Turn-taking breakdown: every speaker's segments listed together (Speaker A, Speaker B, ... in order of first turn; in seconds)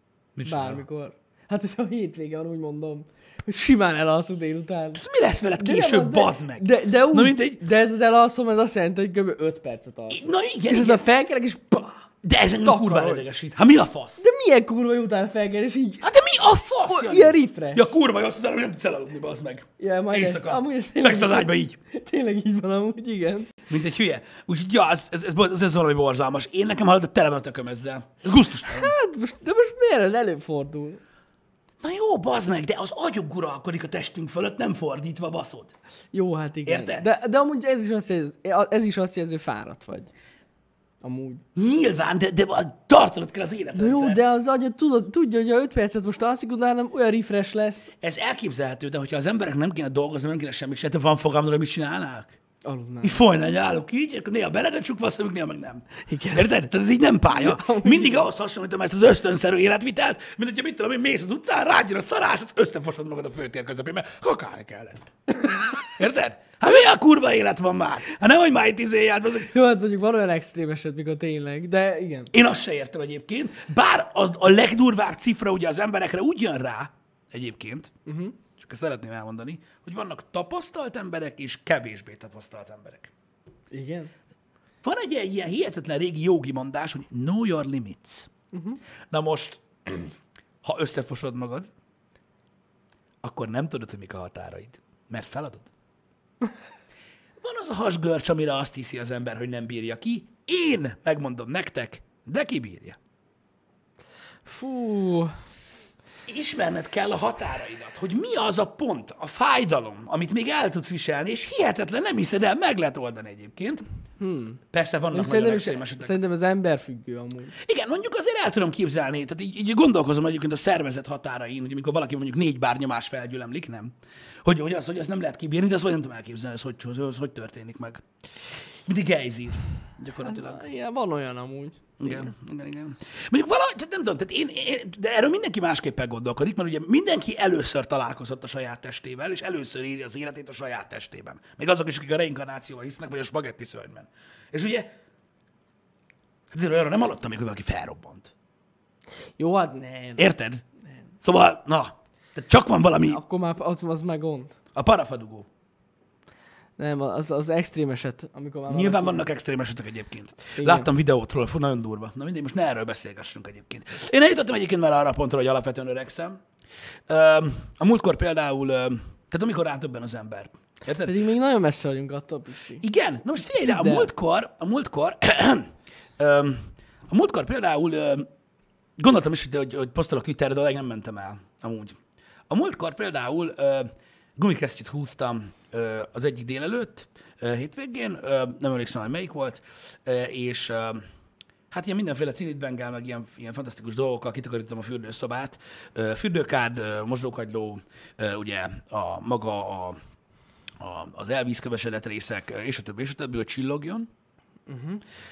Speaker A: 0.4-0.8, 5.0-7.6, 10.1-11.0, 12.2-14.2, 16.0-21.8, 23.7-28.9, 31.8-35.7, 36.6-37.1, 41.5-44.2, 48.0-52.4, 53.0-65.1, 65.8-69.5, 72.3-77.9, 78.6-83.1, 84.8-88.3, 89.1-91.7, 93.2-95.7, 97.4-103.0, 106.3-113.8, 114.7-116.2, 117.6-128.0, 128.9-130.6, 132.0-144.9, 146.5-148.3, 150.2-150.6, 151.2-153.2, 154.8-155.5, 158.7-166.4, 167.1-171.1, 172.8-178.3, 179.0-182.0, 182.5-191.0, 191.7-200.0, 200.8-204.1
Speaker B: 0.5-5.0, 5.6-12.1, 12.6-13.2, 14.2-16.1, 16.8-17.8, 19.8-23.6, 28.7-31.0, 36.1-40.1, 41.0-41.4, 43.8-47.9, 52.6-53.2, 56.0-56.5, 57.3-58.3, 65.5-65.8, 69.5-72.3, 78.1-78.4, 83.7-84.1, 88.5-88.8, 104.5-105.4, 114.2-114.6, 115.1-117.6, 130.2-132.3, 149.4-150.2, 153.1-154.6, 156.8-159.2, 160.6-160.9, 171.0-172.8, 173.6-174.1, 204.7-205.0